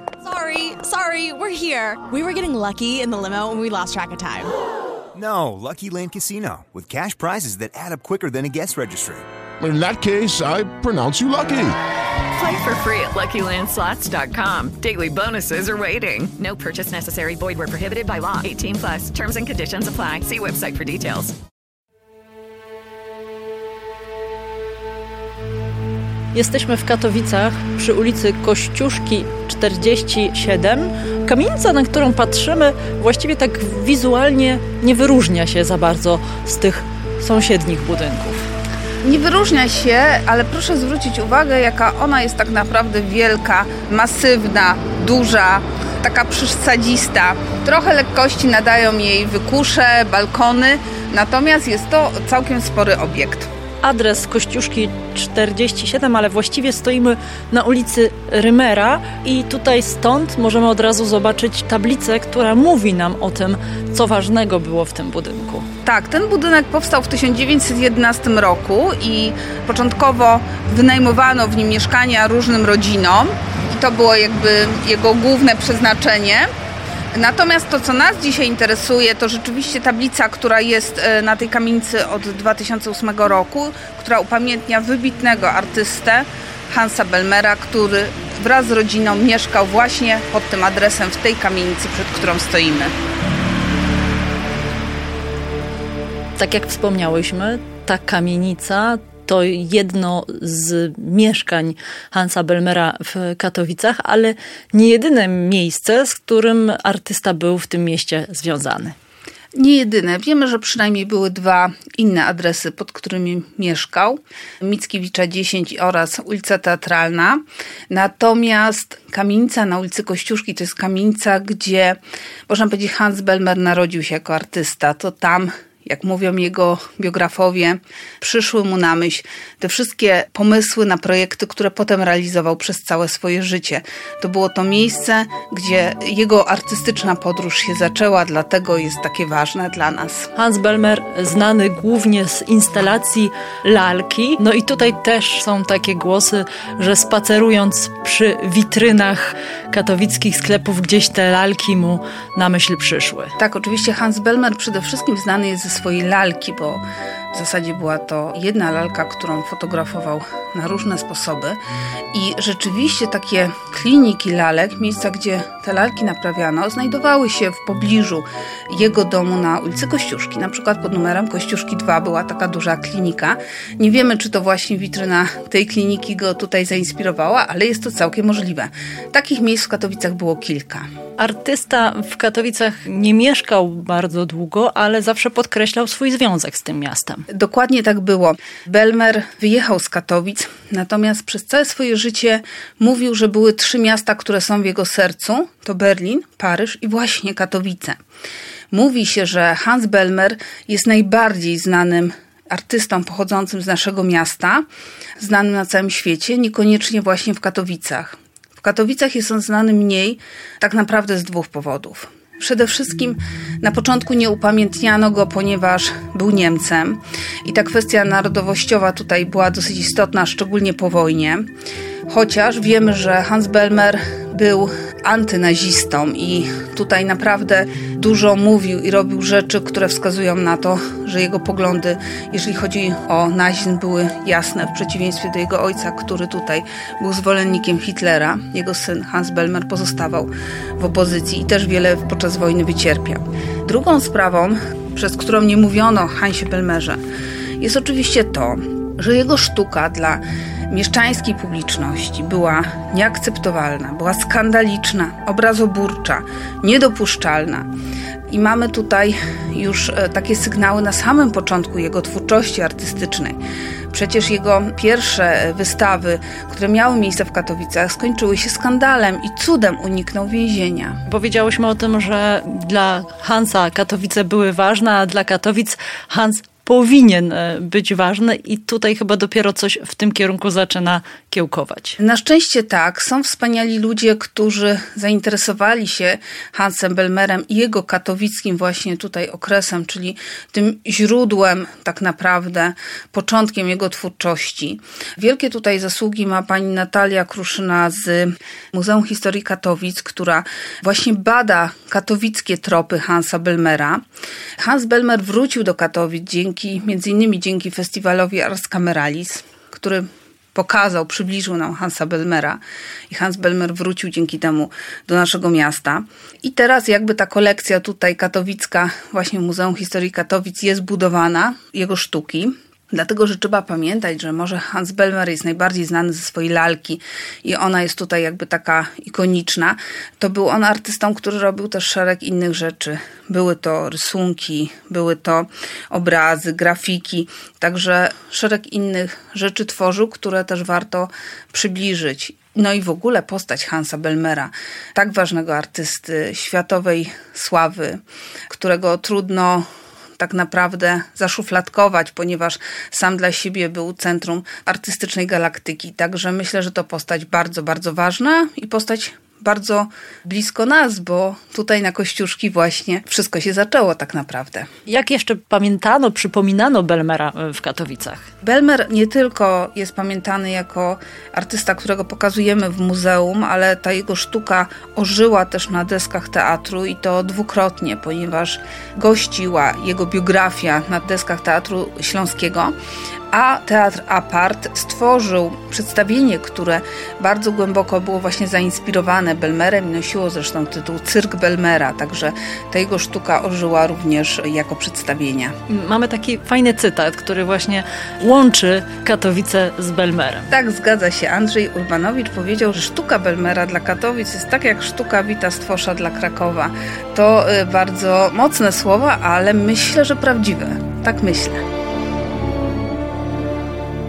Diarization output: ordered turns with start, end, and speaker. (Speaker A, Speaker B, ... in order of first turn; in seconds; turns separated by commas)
Speaker A: 0.2-4.5, Speaker B: 5.1-9.3, Speaker C: 9.6-11.8, Speaker D: 12.3-21.4, Speaker E: 26.3-38.4, Speaker F: 39.0-53.5, Speaker E: 53.8-65.7, Speaker F: 65.8-76.5, Speaker F: 77.1-93.0, Speaker E: 96.4-109.0, Speaker F: 109.5-140.3, Speaker E: 140.4-153.3, Speaker F: 153.4-161.6, Speaker F: 162.1-180.9, Speaker E: 181.2-187.2, Speaker F: 187.3-198.0, Speaker F: 198.7-204.7, Speaker F: 205.2-221.5, Speaker F: 222.1-247.0, Speaker F: 247.6-257.7, Speaker F: 258.3-263.4, Speaker F: 263.9-271.0, Speaker E: 271.1-282.0, Speaker F: 282.0-304.0, Speaker F: 304.6-349.7, Speaker F: 350.2-364.7, Speaker E: 364.9-368.3, Speaker F: 368.4-382.8, Speaker F: 383.3-395.6, Speaker E: 395.7-400.5, Speaker F: 400.5-411.6